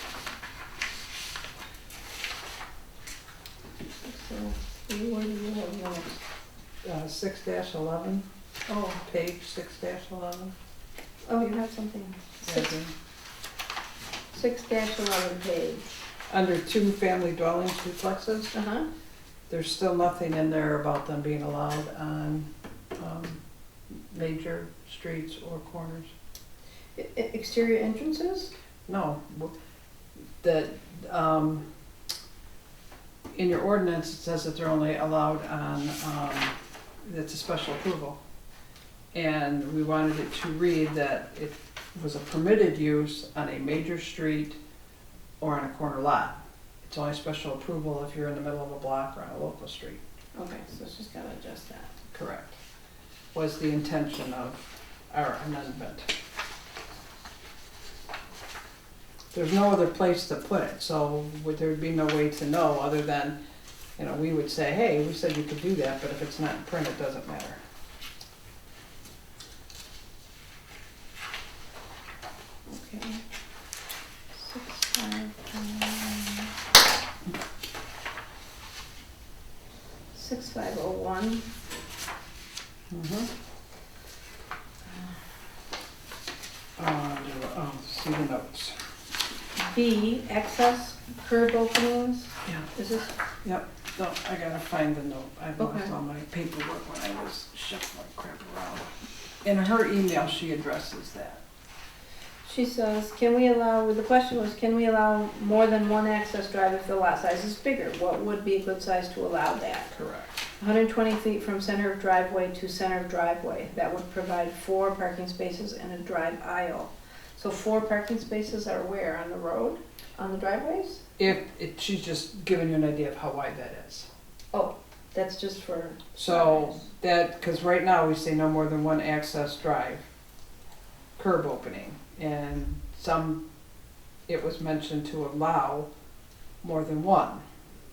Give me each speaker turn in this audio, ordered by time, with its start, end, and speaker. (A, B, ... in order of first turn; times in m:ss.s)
0:04.0-0:06.2 A
0:06.8-0:08.2 B
0:08.7-0:09.0 A
0:09.0-0:10.5 B
0:11.2-0:12.7 A
0:12.4-0:12.9 B
0:14.3-0:15.9 A
0:16.3-0:18.5 B
0:18.5-0:18.8 A
0:19.5-0:23.4 B
0:23.9-0:26.1 B
0:27.0-0:28.5 A
0:28.9-0:29.5 B
0:30.4-0:31.6 B
0:33.3-0:38.2 B
0:39.1-0:44.6 B
0:45.4-0:50.0 B
0:50.3-0:51.9 A
0:52.1-0:52.5 B
0:53.3-0:56.1 B
0:59.3-1:03.4 B
1:04.0-1:07.6 B
1:12.7-1:13.2 A
1:14.3-1:16.5 A
1:20.1-1:21.4 A
1:22.9-1:23.3 B
1:26.8-1:28.8 B
1:29.6-1:33.1 A
1:33.4-1:38.9 B
1:35.6-1:35.9 A
1:39.4-1:41.4 B
1:42.4-1:49.9 A
1:49.9-1:50.4 B
1:50.6-2:01.0 A
2:01.2-2:04.1 B
2:04.5-2:06.8 A
2:06.2-2:10.1 B
2:11.2-2:13.4 B
2:14.3-2:15.9 B
2:16.6-2:17.4 B